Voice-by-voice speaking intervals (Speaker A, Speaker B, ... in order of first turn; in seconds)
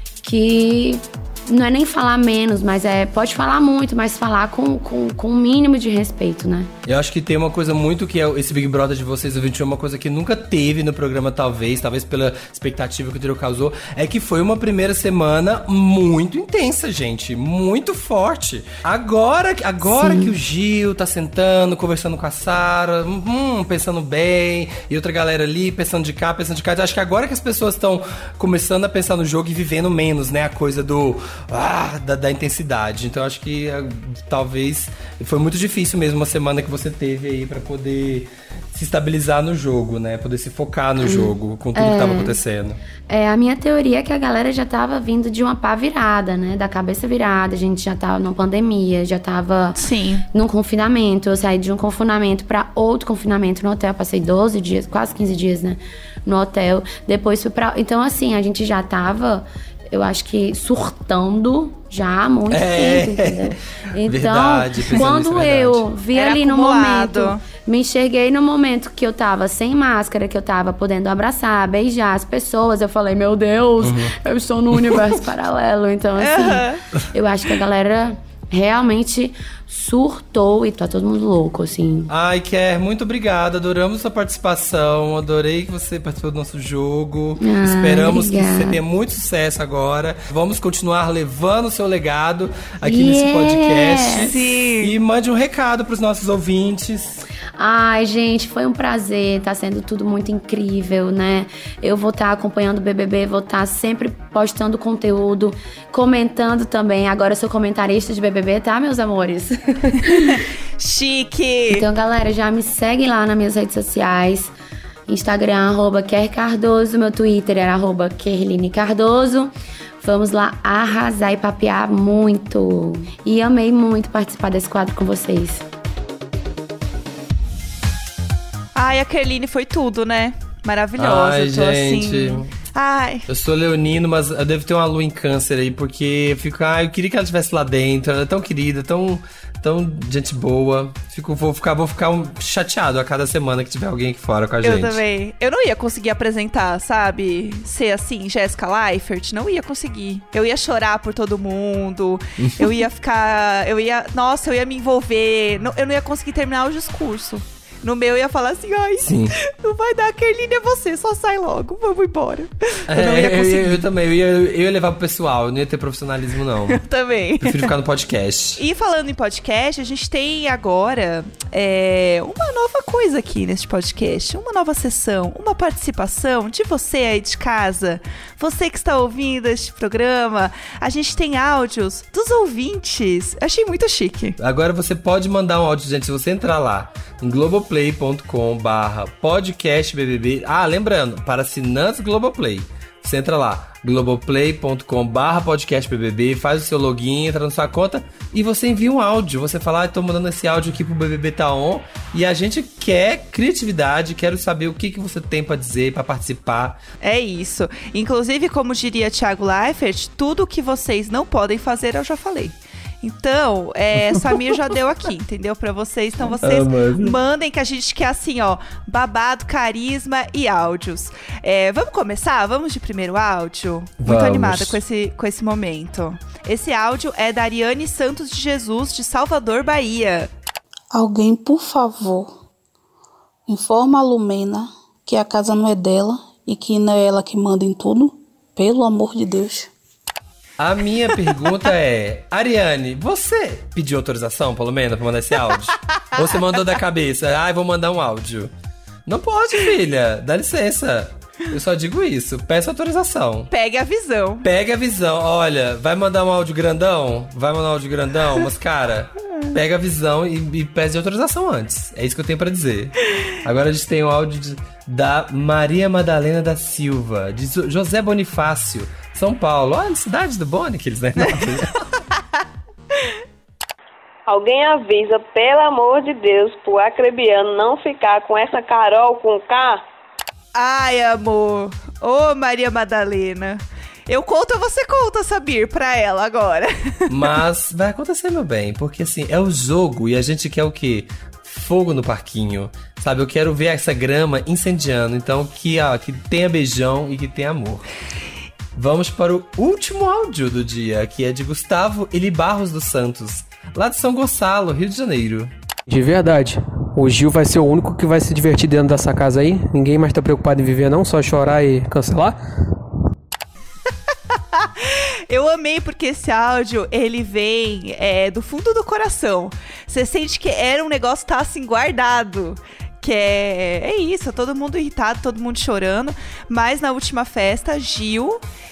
Speaker A: 0.2-6.7, 19.9-20.3, 41.0-42.4, 43.1-49.8, 50.3-82.1, 87.4-88.8, 92.8-94.3, 97.6-110.4, 111.7-114.5, 115.1-119.5, 120.0-125.7
Speaker B: 6.8-42.8, 62.5-65.8, 73.8-74.1, 82.1-97.2, 131.0-132.5, 133.3-145.0, 152.4-152.7, 159.0-159.3, 162.9-166.8, 167.4-168.6, 184.4-206.8, 216.4-217.1, 224.0-224.8, 240.6-248.5, 249.1-253.5, 254.4-271.8, 287.1-297.9, 298.7-305.5
Speaker C: 49.8-50.2, 66.1-67.4, 76.2-76.8, 94.2-94.9, 110.2-111.8, 128.7-133.3, 144.6-163.8, 166.7-167.7, 168.6-184.4, 207.0-230.3, 253.5-254.5, 280.5-287.1, 314.5-328.4
Speaker D: 230.9-232.4, 233.5-239.7
Speaker E: 274.3-279.8
Speaker F: 305.9-312.4